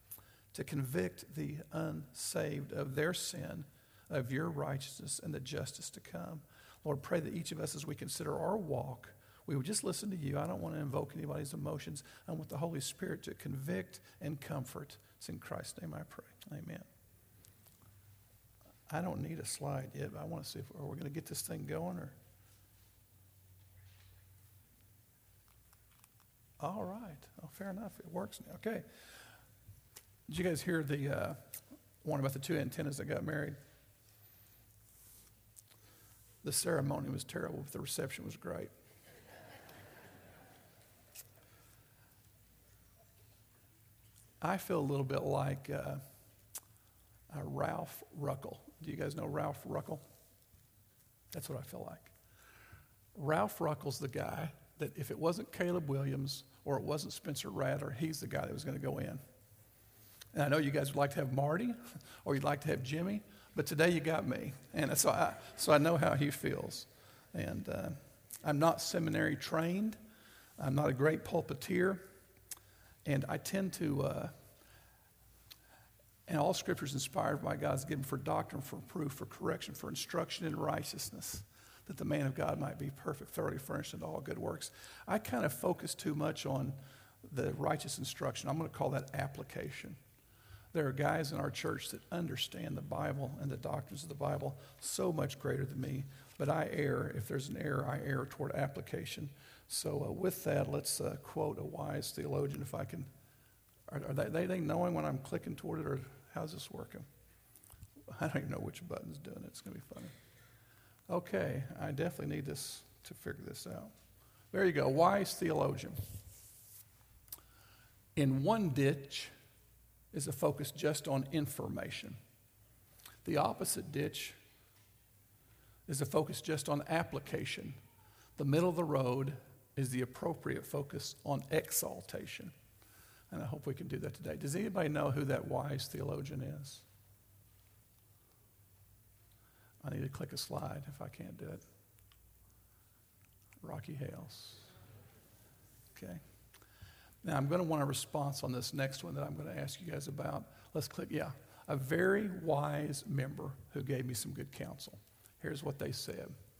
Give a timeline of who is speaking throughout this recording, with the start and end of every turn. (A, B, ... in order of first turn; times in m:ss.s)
0:00.5-0:16.9 A
0:18.9-0:22.2 A
0:26.6-0:28.8 A
0:30.3-0:31.4 A
0:32.0-0:33.6 A
0:36.4-0:38.7 A
0:44.4-0:46.0 A
0:47.3-0:50.0 A
0:51.3-0:52.1 A
0:53.1-0:59.2 A
1:00.3-1:10.0 A
1:10.6-1:12.0 A
1:13.0-1:14.3 A
1:16.3-1:30.0 A
1:30.7-1:43.1 A
1:43.9-1:47.1 A
1:48.1-1:50.1 A
1:51.1-1:53.9 A
1:54.5-1:56.0 A
1:58.2-1:59.3 A
2:00.1-2:02.2 A
2:03.2-2:04.4 A
2:05.9-2:07.8 A
2:08.4-2:12.5 A
2:13.3-2:16.8 A
2:19.8-2:21.6 A
2:23.6-2:24.7 A
2:25.9-2:26.2 A
2:27.2-2:36.3 A